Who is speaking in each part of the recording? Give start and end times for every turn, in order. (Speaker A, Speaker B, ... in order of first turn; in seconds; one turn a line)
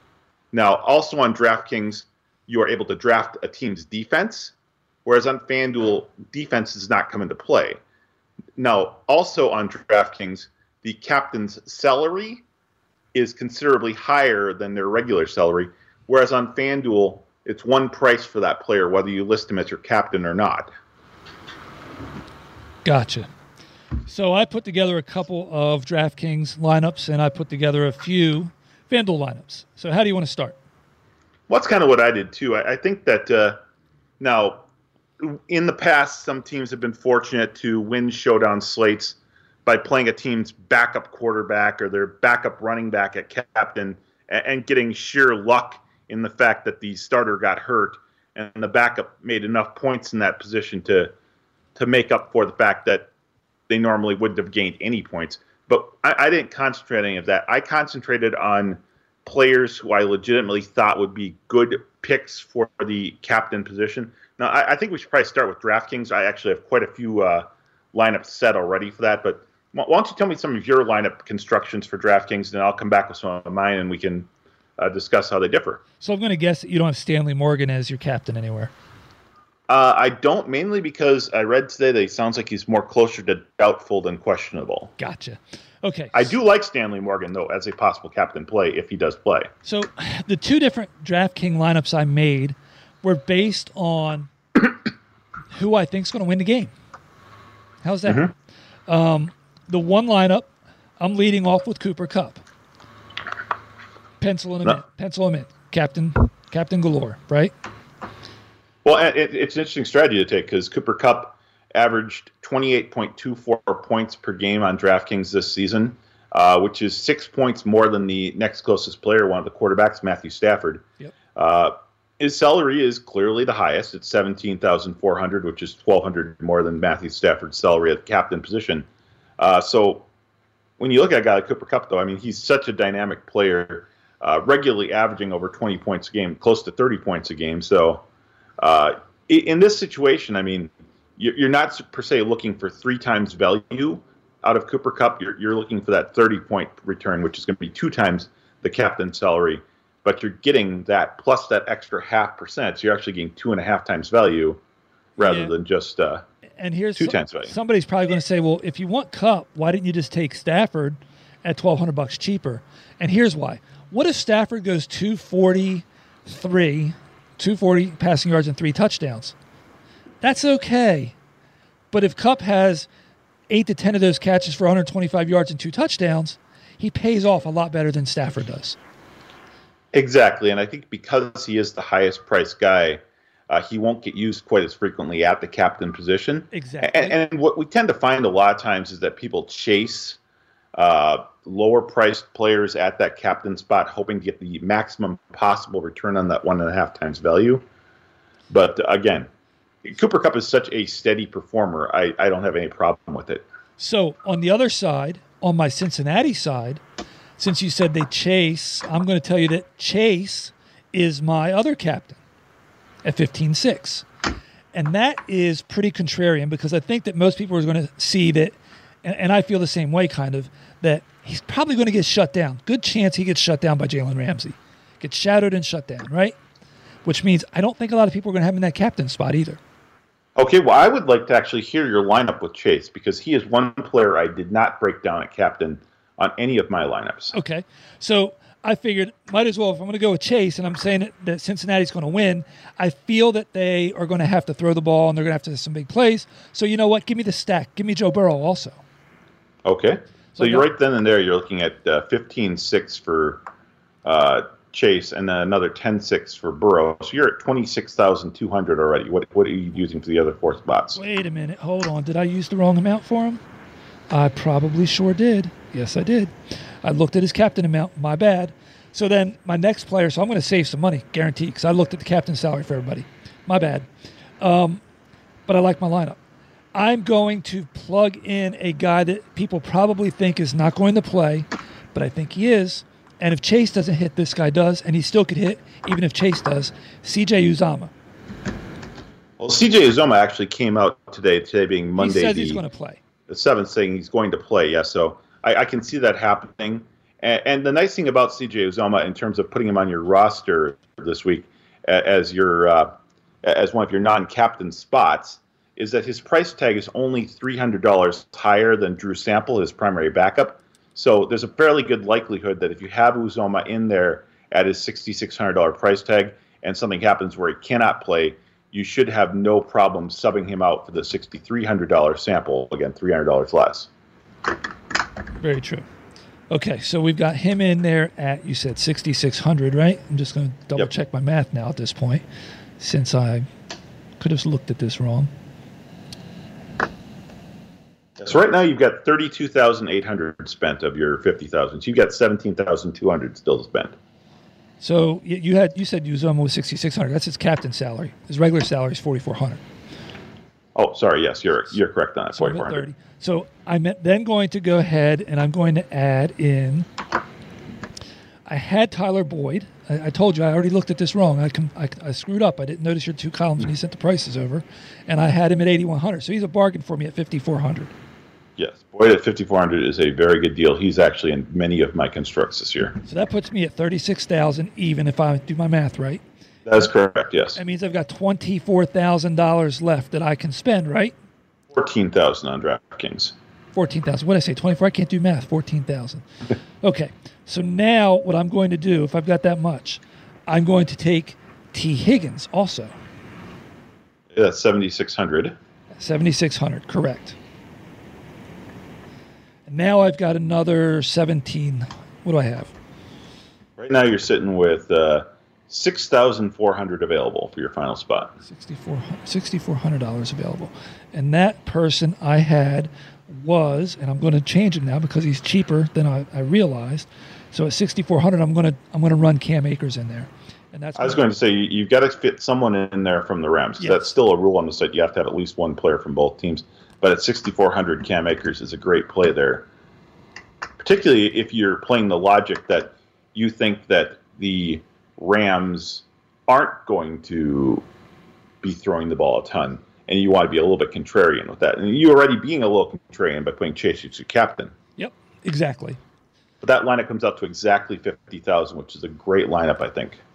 Speaker A: 0.5-4.5
Speaker A: 5.0-7.8
Speaker A: 8.6-12.4
Speaker A: 13.1-20.7
Speaker B: 22.8-23.3
Speaker B: 24.1-30.6
Speaker A: 31.5-33.6
Speaker A: 34.2-34.6
Speaker A: 35.2-51.1
Speaker A: 51.8-53.1
Speaker A: 53.7-75.8
Speaker B: 76.0-78.7
Speaker A: 79.7-84.9
Speaker B: 85.0-86.3
Speaker A: 86.1-89.5
Speaker B: 89.6-94.3
Speaker B: 95.5-96.7
Speaker B: 97.8-98.3
Speaker B: 98.9-102.4
Speaker B: 104.2-107.5
Speaker A: 108.8-120.8
Speaker A: 121.3-128.8
Speaker A: 129.4-130.1
Speaker A: 130.8-138.0
Speaker A: 138.6-154.6
Speaker A: 155.2-156.2
Speaker B: 155.2-155.5
Speaker B: 156.6-169.3
Speaker A: 157.0-157.5
Speaker B: 170.2-171.1
Speaker B: 171.9-172.9
Speaker B: 173.5-178.8
Speaker A: 179.9-190.2
Speaker B: 186.5-187.2
Speaker A: 190.7-197.6
Speaker A: 198.5-199.3
Speaker A: 199.8-203.4
Speaker B: 203.8-206.8
Speaker B: 207.4-212.2
Speaker B: 213.0-214.0
Speaker B: 214.7-226.4
Speaker B: 227.0-229.6
Speaker A: 230.4-237.3
Speaker B: 237.3-248.8
Speaker A: 249.6-253.4
Speaker B: 250.3-250.7
Speaker A: 254.0-261.0
Speaker B: 260.9-263.4
Speaker B: 264.1-273.9
Speaker B: 274.4-274.8
Speaker B: 275.5-276.1
Speaker B: 276.7-287.9
Speaker A: 289.4-292.6
Speaker B: 292.0-293.0
Speaker A: 293.3-323.9
Speaker B: 325.4-325.8
Speaker B: 326.5-332.2
Speaker B: 332.8-333.5
Speaker B: 334.2-335.3
Speaker A: 338.2-343.9
Speaker B: 344.8-349.6
Speaker A: 350.7-352.9
Speaker B: 352.3-356.9
Speaker B: 358.5-367.9
Speaker A: 368.6-373.0
Speaker B: 373.1-376.2
Speaker A: 376.6-377.6
Speaker B: 377.6-381.1
Speaker A: 381.7-383.3
Speaker B: 383.7-386.2
Speaker B: 386.8-392.9
Speaker A: 394.3-395.6
Speaker B: 396.0-397.4
Speaker B: 399.7-402.7
Speaker A: 403.8-408.3
Speaker B: 408.4-421.2
Speaker A: 420.9-429.7
Speaker B: 423.8-424.1
Speaker A: 430.8-437.8
Speaker A: 438.6-444.7
Speaker B: 445.0-446.0
Speaker A: 446.6-450.2